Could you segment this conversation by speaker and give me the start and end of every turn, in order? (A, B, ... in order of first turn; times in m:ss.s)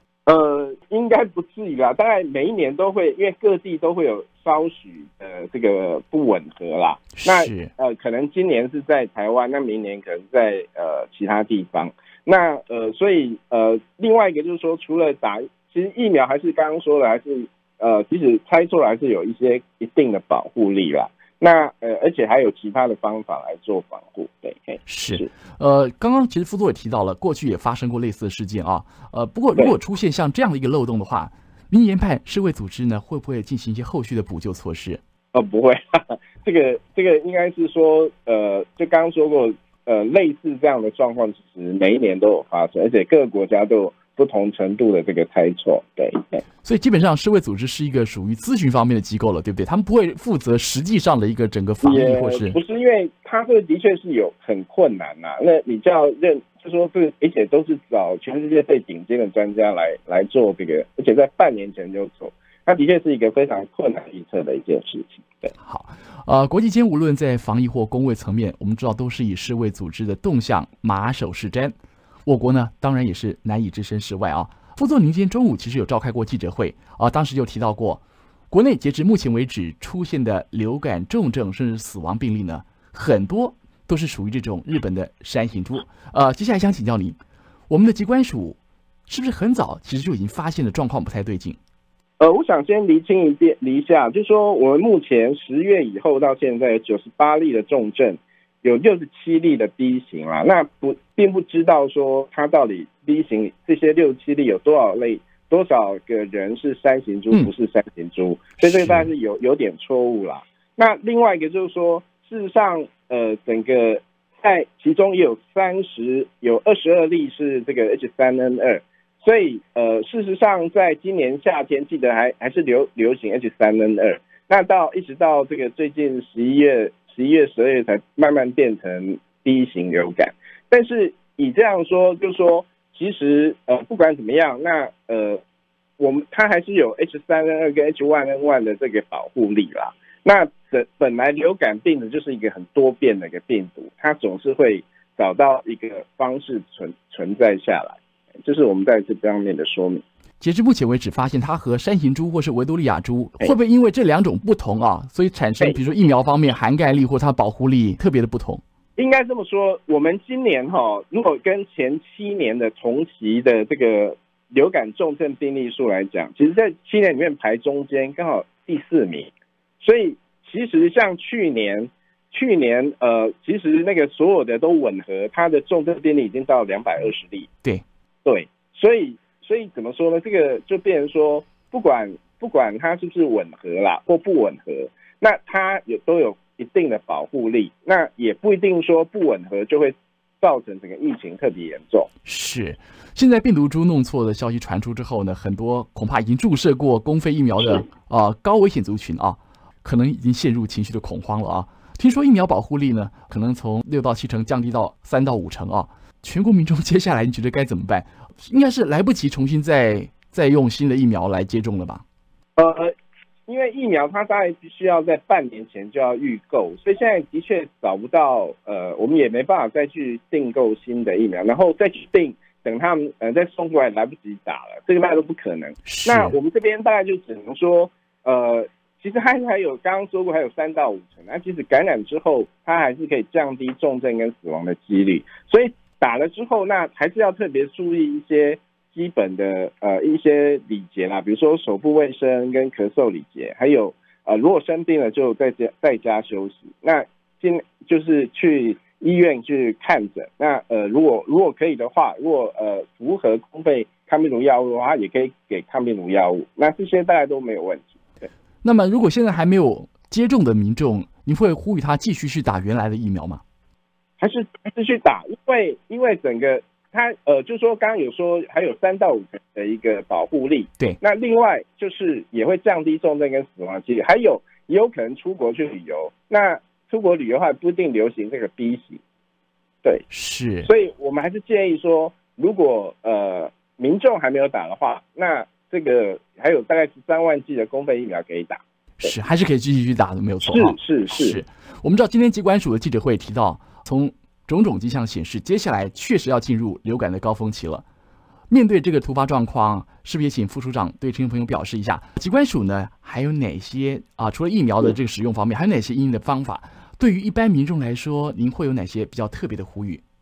0:00.2-0:25.3 A
0:07.2-0:07.7 B
0:24.8-0:35.0 B
0:35.3-0:46.4 A
0:46.6-0:52.6 B
0:51.8-1:05.5 A
1:05.6-1:11.7 B
1:12.2-1:27.2 B
1:27.7-1:31.6 B
1:32.2-2:15.4 A
1:48.6-1:49.1 B
2:16.0-2:30.0 A
2:30.4-2:38.6 B
2:39.0-2:57.5 A
2:58.2-3:12.1 A
3:12.2-3:32.0 B
3:32.6-3:32.9 A
3:33.5-4:18.3 A
3:45.8-3:46.4 B
4:18.6-4:23.4 B
4:24.2-4:39.0 A
4:40.1-4:40.7 B
4:40.6-4:49.1 A
4:49.0-4:57.8 B
4:50.4-4:51.4 A
4:58.5-5:10.0 B